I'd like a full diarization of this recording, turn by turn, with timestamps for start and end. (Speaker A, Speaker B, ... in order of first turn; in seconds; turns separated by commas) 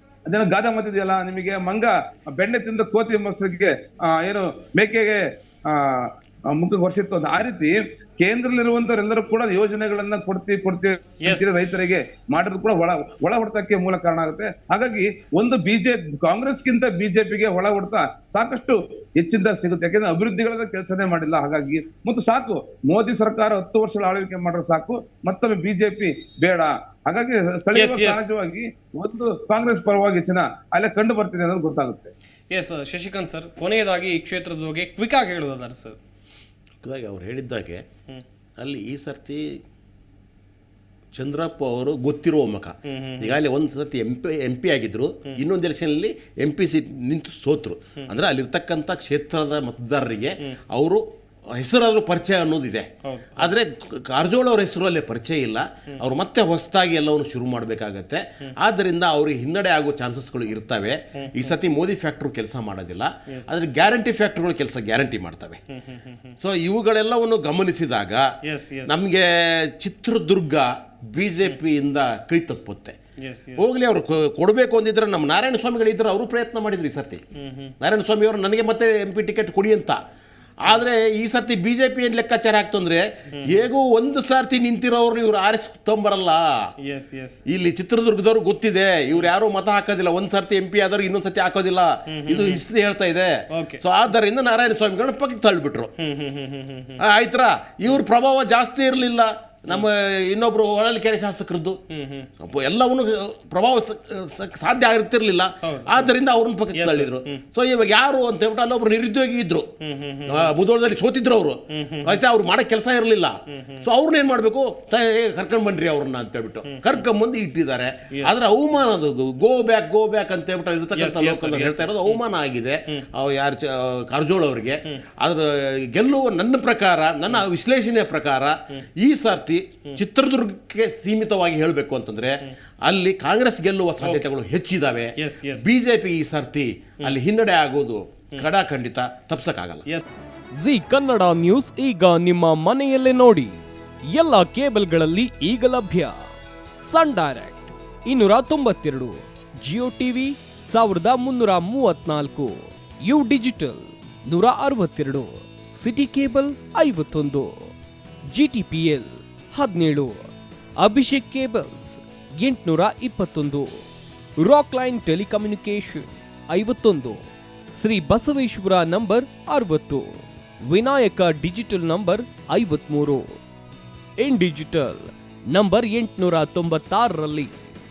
Speaker A: 0.3-32.1, Speaker B: 11.2-11.5, Speaker B: 27.7-28.3, Speaker B: 32.5-36.0, Speaker C: 36.8-37.8, Speaker C: 38.6-39.6, Speaker C: 41.1-65.6, Speaker B: 42.9-43.3, Speaker B: 53.0-53.5, Speaker B: 61.1-61.5, Speaker B: 65.7-66.3, Speaker C: 66.4-68.3, Speaker B: 68.4-68.9, Speaker C: 68.8-73.0, Speaker B: 73.2-73.7, Speaker C: 73.5-77.2, Speaker B: 77.3-77.7, Speaker C: 77.8-80.0, Speaker C: 80.6-86.7, Speaker B: 86.8-87.4, Speaker C: 87.5-95.9, Speaker B: 92.1-92.6, Speaker B: 93.5-93.8, Speaker B: 96.0-97.0, Speaker C: 97.0-101.8, Speaker B: 101.9-102.3, Speaker C: 102.4-109.7, Speaker B: 105.6-106.1, Speaker B: 106.7-107.4, Speaker B: 109.8-110.5, Speaker C: 110.3-139.8, Speaker B: 111.7-112.2, Speaker B: 113.5-113.8, Speaker B: 116.7-117.0, Speaker B: 120.9-122.2, Speaker B: 135.2-135.7, Speaker D: 140.5-146.2, Speaker D: 146.8-157.7, Speaker D: 158.3-163.8, Speaker D: 164.4-167.2, Speaker D: 167.8-173.4, Speaker D: 174.2-177.5